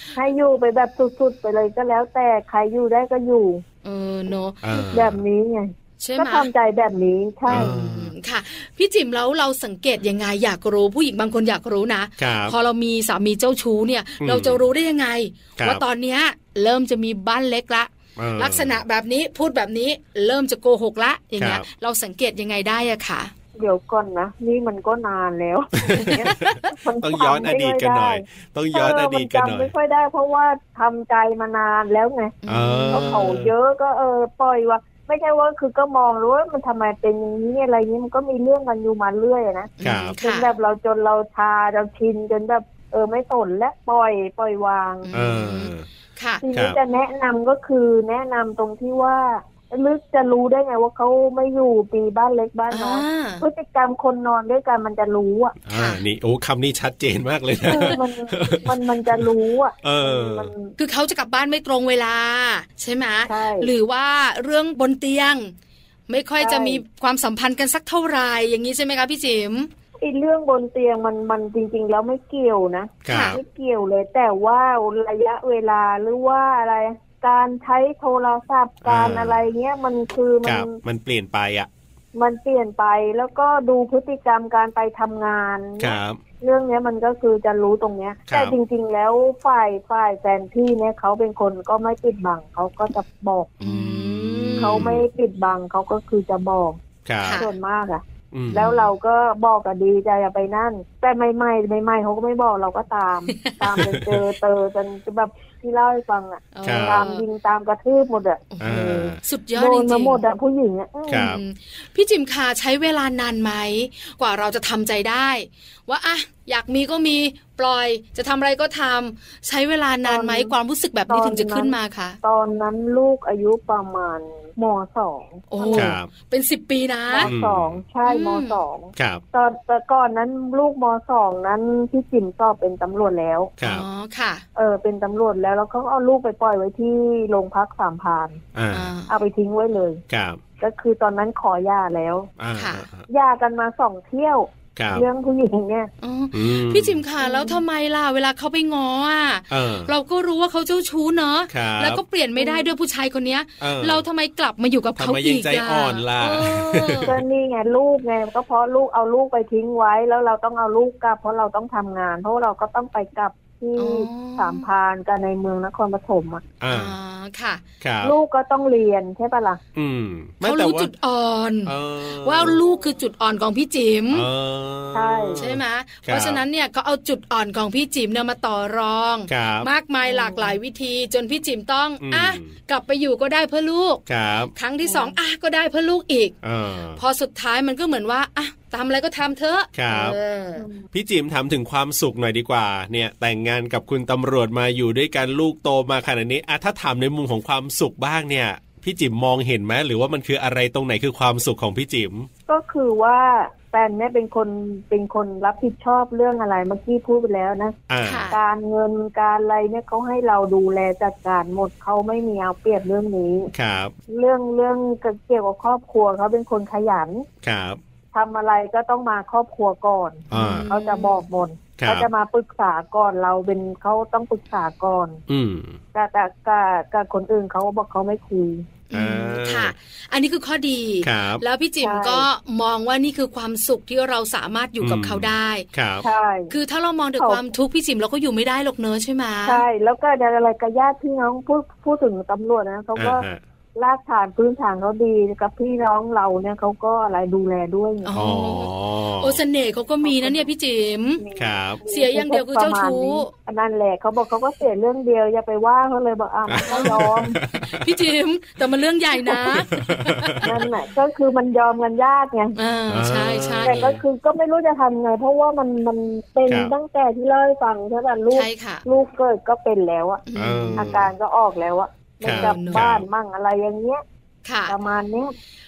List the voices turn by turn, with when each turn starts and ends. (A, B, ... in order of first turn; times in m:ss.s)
0:00.1-0:03.6 A
0:03.8-0:04.6 B
0:04.6-0:05.2 C
0:04.7-0:07.8 A
0:06.0-0:06.5 B
0:07.5-0:08.1 C
0:07.5-0:23.3 B
0:12.2-0:12.5 C
0:14.2-0:14.6 C
0:15.6-0:15.8 C
0:18.2-0:18.8 C
0:21.4-0:21.6 C
0:23.6-0:32.4 A
0:25.9-0:29.7 C
0:26.1-0:26.7 B
0:32.4-0:33.4 B
0:32.4-0:33.5 C
0:32.9-0:45.1 A
0:39.8-0:40.5 B
0:39.8-0:40.1 C
0:45.0-0:46.4 B
0:45.1-0:45.8 C
0:46.4-0:55.6 A
0:46.5-0:46.8 C
0:52.7-0:53.4 B
0:55.6-0:59.3 C
0:55.7-0:56.0 B
0:57.6-1:00.7 A
0:59.8-1:00.5 C
1:00.8-1:05.5 B
1:03.3-1:03.7 A
1:06.1-1:09.7 B
1:06.4-1:06.8 A
1:10.0-1:20.8 A
1:13.0-1:13.4 C
1:13.1-1:13.4 B
1:18.8-1:19.4 C
1:20.4-1:21.7 C
1:22.1-1:33.5 A
1:25.8-1:26.2 C
1:28.3-1:28.6 C
1:33.6-1:35.0 C
1:33.6-1:34.9 B
1:34.6-1:36.8 A
1:37.0-1:37.4 C
1:37.2-1:37.5 B
1:37.3-1:48.4 A
1:38.3-1:38.7 C
1:38.5-1:38.9 B
1:43.3-1:43.8 B
1:43.6-1:44.2 C
1:46.5-1:47.2 B
1:46.6-1:47.1 C
1:48.5-1:50.2 B
1:48.6-1:49.2 C
1:49.6-1:51.3 A
1:51.1-1:51.4 C
1:51.1-2:02.2 B
2:00.0-2:00.5 A
2:01.1-2:06.0 A
2:05.5-2:07.3 B
2:05.7-2:06.1 C
2:07.1-2:13.5 A
2:07.2-2:07.8 C
2:08.0-2:08.6 B
2:09.0-2:09.2 C
2:13.6-2:13.8 C
2:13.6-2:14.4 B
2:14.5-2:18.4 A
2:18.5-2:18.9 C
2:18.7-2:19.1 B
2:19.1-2:20.0 A
2:20.1-2:20.4 C
2:20.6-2:22.3 A
2:22.4-2:23.0 C
2:22.6-2:22.8 B
2:23.1-2:25.9 A
2:24.8-2:25.0 C
2:26.0-2:37.1 B
2:26.3-2:27.0 C
2:27.2-2:27.6 A
2:29.5-2:29.9 C
2:31.5-2:32.0 C
2:32.4-2:32.7 A
2:33.6-2:34.0 C
2:35.0-2:37.2 C
2:37.0-2:46.4 A
2:43.8-2:44.6 B
2:46.6-2:46.9 C
2:46.7-2:47.6 B
2:47.8-2:48.1 C
2:48.0-2:49.6 A
2:49.7-2:50.9 C
2:50.4-2:54.3 B
2:51.6-2:52.6 C
2:54.1-2:56.4 C
2:54.9-2:55.4 A
2:55.4-3:04.0 B
2:59.3-2:59.7 C
3:00.0-3:00.6 A
3:02.0-3:02.5 C
3:04.1-3:04.5 C
3:04.5-3:06.3 B
3:04.8-3:05.2 A
3:06.4-3:07.0 C
3:07.0-3:10.6 B
3:09.7-3:10.2 C
3:10.6-3:10.8 A
3:10.9-3:22.3 C
3:22.5-3:27.8 A
3:27.9-3:28.3 C
3:28.0-3:28.3 B
3:28.3-3:33.5 A
3:33.5-3:33.9 C
3:34.1-3:37.3 A
3:37.4-3:37.8 C
3:38.1-3:45.2 A
3:40.3-3:40.7 C
3:40.3-3:41.2 B
3:41.8-3:42.1 C
3:45.3-3:45.8 C
3:45.9-3:48.6 A
3:48.9-3:55.6 B
3:48.9-3:49.7 C
3:51.0-3:51.4 C
3:51.8-3:52.3 A
3:54.8-3:56.0 C
3:56.0-3:56.5 A
3:56.5-3:59.6 B
3:57.2-3:57.4 A
3:59.4-4:03.2 A
4:02.9-4:03.4 C
4:03.8-4:08.1 A
4:08.0-4:11.2 B
4:08.1-4:09.4 C
4:10.0-4:10.5 A
4:11.2-4:17.4 A
4:11.4-4:11.8 C
4:11.9-4:13.3 B
4:16.5-4:18.0 C
4:16.6-4:17.0 B
4:17.5-4:20.4 B
4:19.2-4:19.5 A
4:19.5-4:20.7 C
4:20.4-4:22.5 A
4:22.6-4:23.8 B
4:22.9-4:24.0 C
4:23.6-4:30.2 A
4:26.5-4:26.7 C
4:28.3-4:28.8 B
4:30.3-4:30.9 B
4:30.3-4:31.1 C
4:30.8-4:34.0 A
4:32.2-4:33.0 C
4:32.3-4:32.8 B
4:34.4-4:34.7 B
4:34.7-4:35.3 A